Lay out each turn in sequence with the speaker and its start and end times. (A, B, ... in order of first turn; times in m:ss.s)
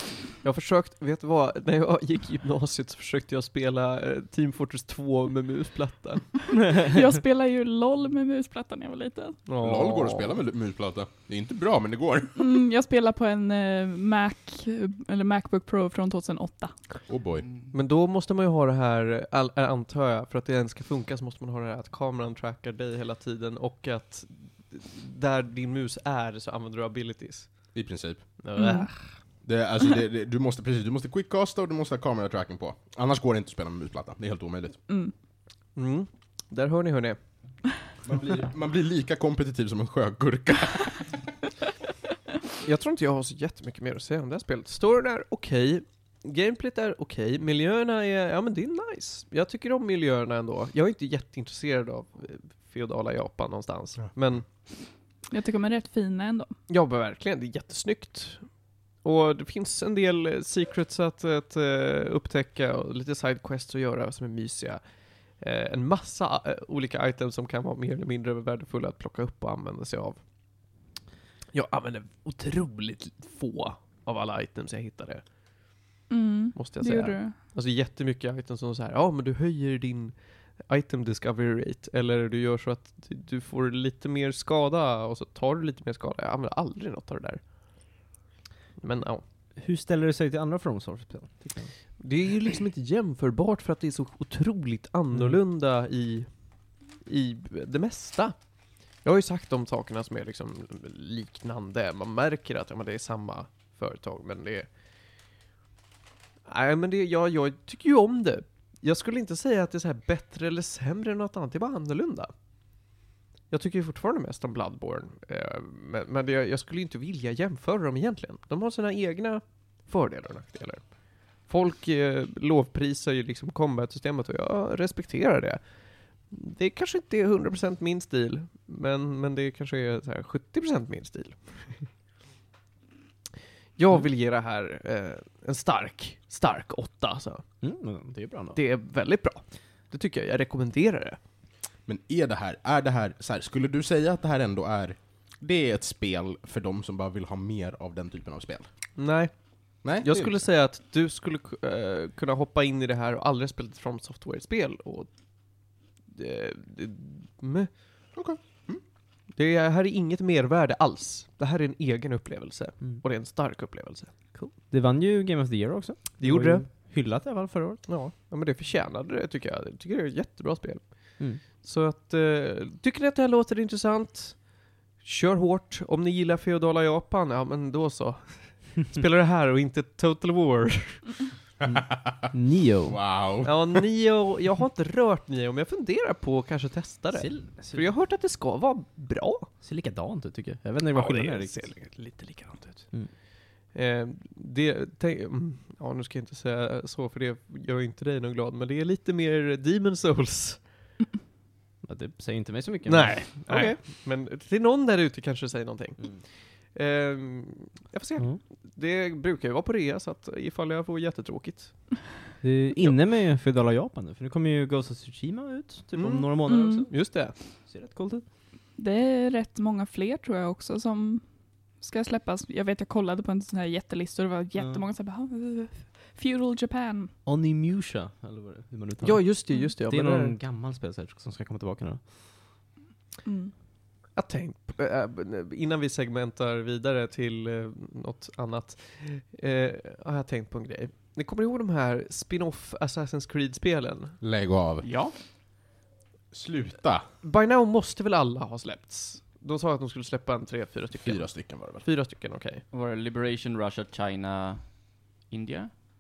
0:00.4-0:06.5 A
0:06.7-0:09.5 B
0:09.5-0:10.4 A
0:09.6-0:12.4 C
0:12.4-0:16.8 B
0:17.1-0:17.5 C
0:17.4-0:17.7 D
0:17.7-0:27.7 A
0:27.7-0:28.3 C
0:28.4-0:29.0 A
0:28.6-0:28.9 B
0:29.4-0:34.8 C
0:34.9-0:35.1 B
0:35.8-0:37.2 A
0:38.0-0:41.2 C
0:42.6-0:54.4 A
0:55.3-0:56.5 B
0:56.7-0:58.5 A
0:59.0-1:04.8 A
1:05.4-1:10.2 A
1:11.5-1:15.2 A
1:16.1-1:17.4 B
1:16.6-1:27.4 A
1:28.8-1:29.2 A
1:29.6-1:31.7 E
1:32.0-1:36.4 A
1:37.0-1:38.4 A
1:38.9-1:44.7 A
1:46.5-1:52.3 A
1:53.5-2:05.6 A
2:06.2-2:11.9 A
2:13.8-2:17.4 A
2:17.6-2:18.6 E
2:18.6-2:21.2 A
2:21.9-2:28.7 C
2:29.0-2:37.8 A
2:29.8-2:30.4 C
2:38.2-2:38.8 C
2:39.4-2:44.1 A
2:44.3-2:47.8 E
2:46.2-2:46.7 A
2:47.9-2:54.5 A
2:55.0-3:01.1 A
3:01.6-3:02.3 C
3:01.7-3:03.0 E
3:02.9-3:03.8 C
3:03.4-3:09.5 A
3:07.1-3:07.9 E
3:09.6-3:11.7 E
3:10.9-3:12.9 A
3:13.6-3:20.6 A
3:21.8-3:23.8 E
3:22.9-3:32.1 A
3:32.4-3:38.2 E
3:35.9-3:37.4 A
3:36.5-3:36.9 B
3:38.8-3:41.2 B
3:41.8-3:47.1 B
3:44.6-3:44.8 E
3:47.2-3:52.0 E
3:49.0-3:50.4 A
3:53.2-3:53.5 B
3:54.2-4:04.2 A
4:04.2-4:04.9 C
4:04.8-4:05.1 D
4:06.3-4:07.1 C
4:07.2-4:12.6 A
4:10.9-4:11.9 C
4:12.7-4:15.7 D